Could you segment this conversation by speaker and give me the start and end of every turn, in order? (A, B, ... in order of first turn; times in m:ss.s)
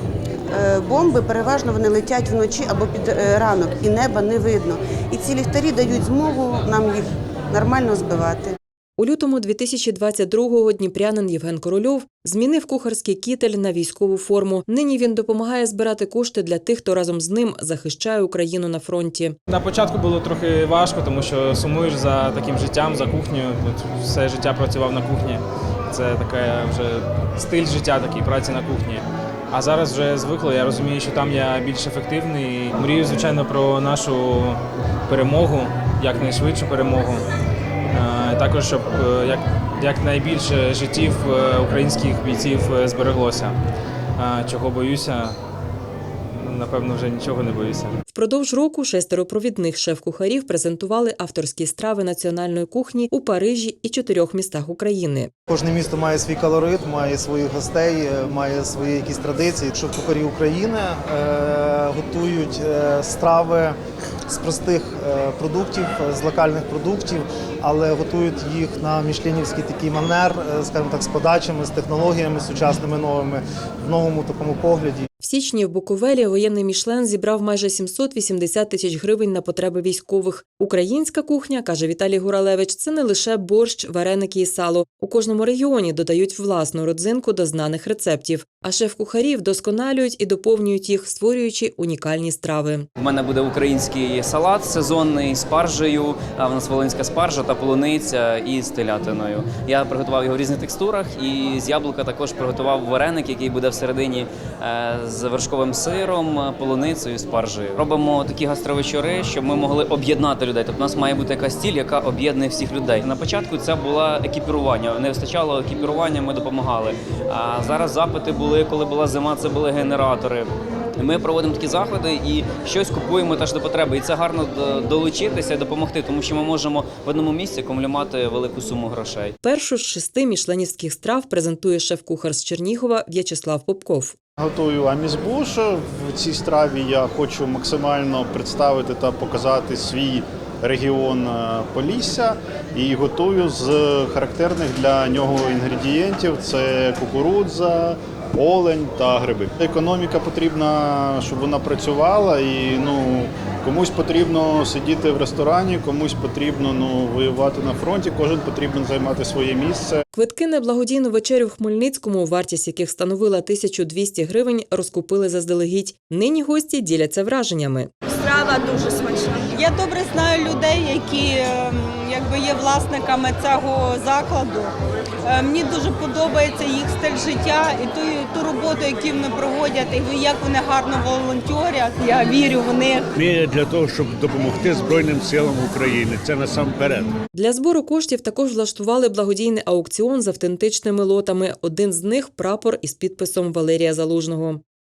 0:00.5-0:08.6 A
0:09.0-0:19.4 B
0:19.5-0:37.3 C
0:37.9-0:43.6 C
0:44.2-0:45.4 C
0:46.4-0:48.0 C
0:48.1-0:55.3 B
0:55.5-1:03.7 D
1:04.3-1:15.1 D
1:15.2-1:32.9 B
1:33.0-2:09.3 E
2:09.4-2:14.2 B
2:14.4-2:40.0 F
2:40.1-2:47.9 B
2:48.2-3:03.2 G
3:03.2-3:07.1 H
3:07.3-3:14.6 B